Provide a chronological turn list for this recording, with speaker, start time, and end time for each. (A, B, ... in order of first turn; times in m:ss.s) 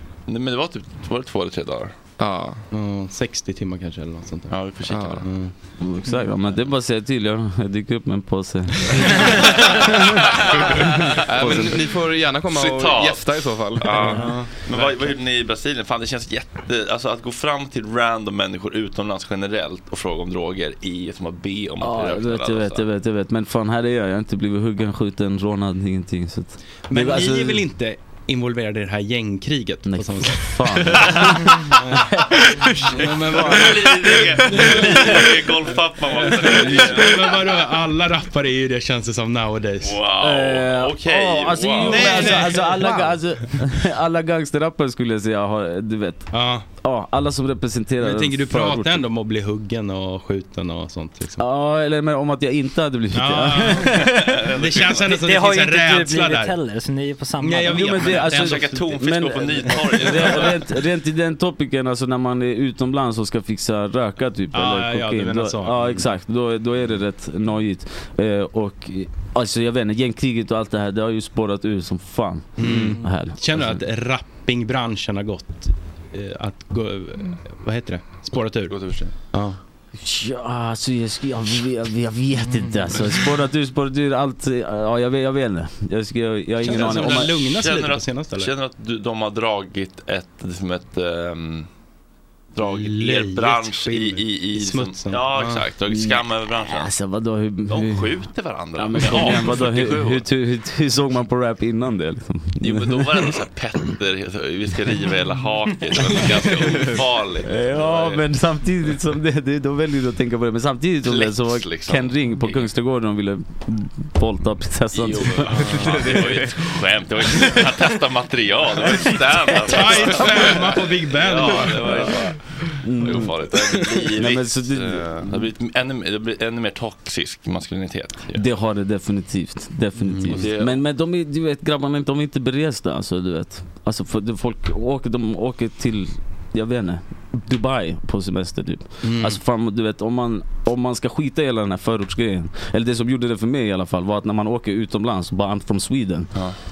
0:00.3-0:01.9 A
0:02.2-0:02.6 B
0:02.7-0:04.6 C
0:04.5-0:05.2 A
0:04.9-0:05.2 B
0:05.2-0:05.5 C
0:05.8-0:10.2 D
0:09.3-0:11.8 A
0:11.3-0:14.3 B
0:11.4-0:11.7 D
0:12.5-0:22.9 A
0:14.2-0:14.9 C
0:21.8-0:27.6 D
0:26.9-0:35.3 C
0:29.9-0:31.6 D
0:31.0-0:31.4 A
0:32.8-0:37.6 A
0:33.3-0:33.7 D
0:36.2-0:40.0 C
0:36.5-0:37.0 D
0:39.8-0:42.6 A
0:40.2-0:46.3 D
0:41.8-0:43.1 C
0:46.3-0:46.6 C
0:46.8-0:49.0 D
0:48.0-0:51.4 C
0:51.4-0:54.4 D
0:53.1-0:53.9 C
0:53.8-0:55.1 A
0:54.6-0:56.6 C
0:55.1-0:58.0 E
0:57.4-0:58.8 C
0:57.7-1:13.6 D
0:57.7-1:00.6 A
1:04.5-1:06.0 C
1:12.6-1:18.8 C
1:18.7-1:19.1 A
1:19.3-1:19.6 C
1:20.0-1:27.3 D
1:26.6-1:28.5 C
1:26.6-1:31.7 A
1:32.5-1:36.9 A
1:32.6-1:35.6 C
1:35.9-1:38.2 D
1:37.7-1:40.2 A
1:38.8-1:43.3 D
1:42.6-1:48.2 A
1:47.4-1:55.9 D
1:51.0-1:52.7 A
1:54.9-2:02.4 A
1:55.5-1:56.1 C
1:59.0-2:00.5 D
1:59.7-2:02.1 C
2:01.9-2:02.2 D
2:02.8-2:05.5 D
2:03.0-2:08.4 A
2:08.3-2:26.3 D
2:10.0-2:10.4 C
2:10.3-2:10.8 A
2:19.0-2:19.4 C